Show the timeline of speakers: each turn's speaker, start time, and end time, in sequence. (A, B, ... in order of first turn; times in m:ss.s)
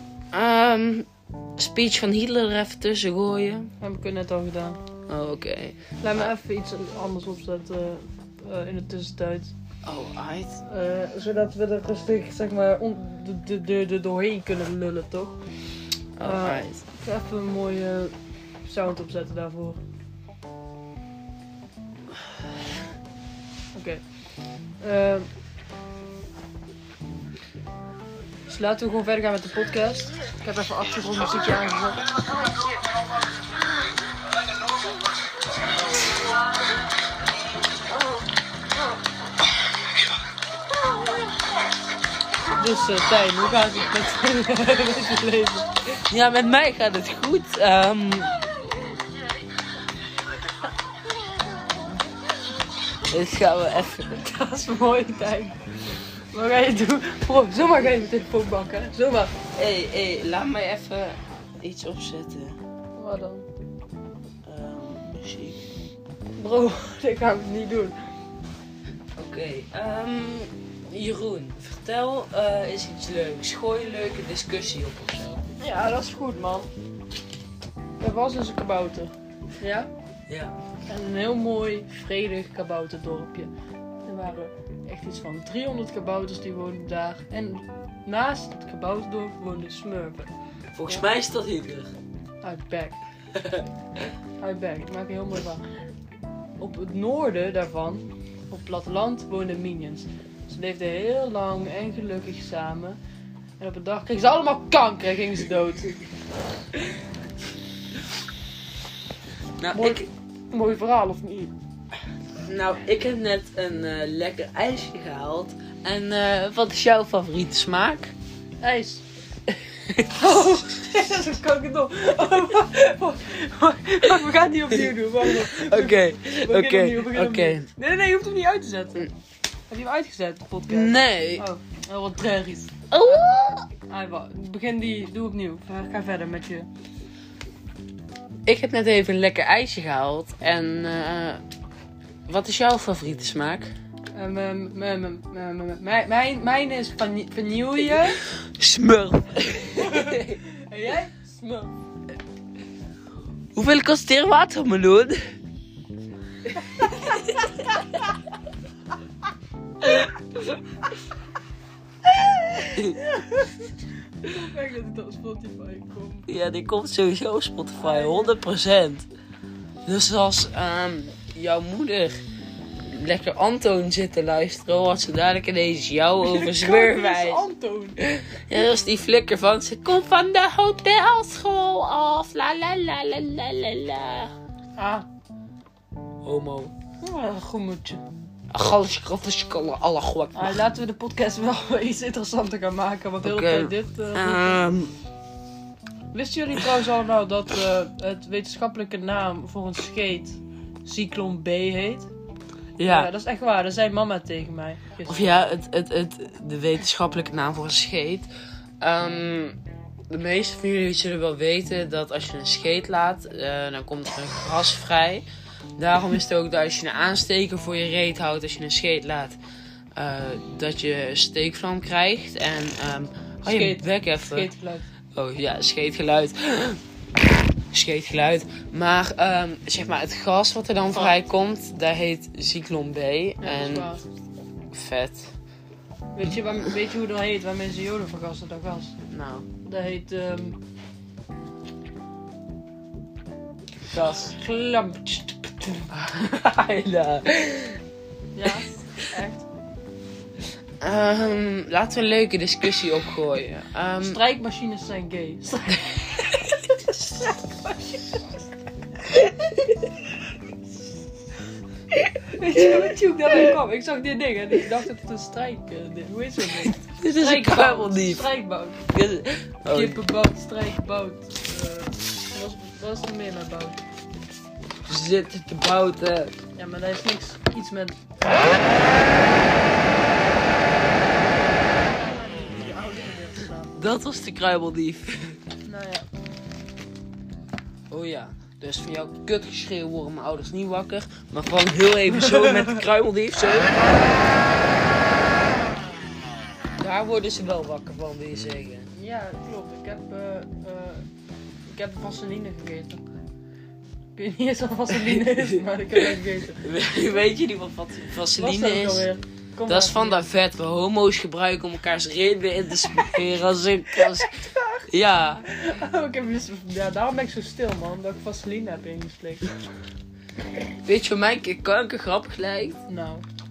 0:00.3-0:03.7 A
0:03.8-0:04.8 B
0:05.1-0:06.3 A
0:06.0-0:09.5 B
0:09.8-0:10.6 A
0:10.7-0:15.4 B
0:16.2-0:16.8 A
0:16.2-0:18.1 B
0:18.6-0:19.8 B
0:23.7-0:24.0 B
0:24.8-0:25.3 B
0:28.5-0:32.0 B
0:42.6-0:45.7 B
0:46.1-0:48.4 A
0:53.1-0:54.2 A
0:54.2-0:55.6 B
0:56.3-0:59.3 B
0:59.5-1:02.6 A
1:03.0-1:03.5 B
1:04.4-1:05.6 A
1:06.4-1:08.0 B
1:09.2-1:15.4 A
1:15.6-1:16.7 B
1:18.0-1:19.9 B
1:20.3-1:20.6 A
1:20.9-1:23.5 B
1:24.0-1:30.3 B
1:30.7-1:31.9 A
1:32.4-1:33.0 B
1:33.4-1:33.6 A
1:34.4-1:35.6 B
1:36.6-1:43.0 B
1:43.6-1:46.0 B
1:49.6-1:50.1 A
1:49.7-1:51.5 B
1:52.4-1:58.1 A
1:58.6-1:59.0 B
1:59.9-2:00.1 A
2:00.1-2:09.1 B
2:04.7-2:07.7 A
2:09.7-2:12.8 B
2:10.7-2:11.5 A
2:12.9-2:13.7 A
2:13.9-2:16.7 B
2:18.5-2:21.4 A
2:22.3-2:23.7 A
2:24.1-2:28.2 B
2:28.4-2:30.4 A
2:29.8-2:31.8 B
2:33.6-2:35.2 A
2:36.8-2:37.5 A
2:39.8-2:40.1 A
2:42.6-2:43.0 A
2:42.8-2:43.7 B
2:44.2-2:46.3 B
2:46.3-2:49.1 A
2:47.8-2:48.4 B
2:49.9-2:52.2 A
2:52.8-2:57.4 A
2:56.2-2:58.0 B
2:58.0-3:04.3 A
3:04.8-3:05.1 B
3:06.2-3:06.7 A
3:07.0-3:08.0 B
3:08.5-3:10.6 A
3:10.3-3:14.6 B
3:13.2-3:14.9 A
3:16.1-3:22.1 B
3:22.8-3:23.1 A
3:22.8-3:25.4 B
3:25.1-3:28.3 A
3:28.8-3:35.2 A
3:35.8-3:39.4 A
3:40.0-3:44.5 A
3:43.4-3:44.9 B
3:45.2-3:46.8 A
3:47.7-3:53.9 A
3:53.4-3:54.0 B
3:54.7-3:55.3 A
3:56.2-3:59.0 B
3:59.1-3:59.5 A
3:59.6-4:00.6 B
4:03.9-4:04.4 A
4:03.9-4:05.9 B
4:05.9-4:07.8 A
4:08.4-4:09.5 B
4:10.8-4:14.2 A
4:14.0-4:15.9 B
4:17.7-4:18.2 B
4:22.3-4:28.8 B
4:26.6-4:28.2 A
4:28.9-4:30.0 A
4:29.7-4:33.8 B
4:34.9-4:36.4 A
4:36.6-4:38.6 B
4:41.8-4:43.7 B
4:43.8-4:45.4 A
4:45.6-4:46.1 B
4:47.9-4:53.9 A
4:56.8-4:58.9 A
4:58.9-5:01.0 B
5:01.7-5:03.0 B
5:04.2-5:06.6 B
5:05.0-5:06.1 A
5:06.6-5:09.1 A
5:08.3-5:10.3 B
5:09.7-5:14.3 A
5:14.9-5:15.5 A
5:15.5-5:19.5 B
5:20.8-5:22.8 A
5:22.9-5:23.2 B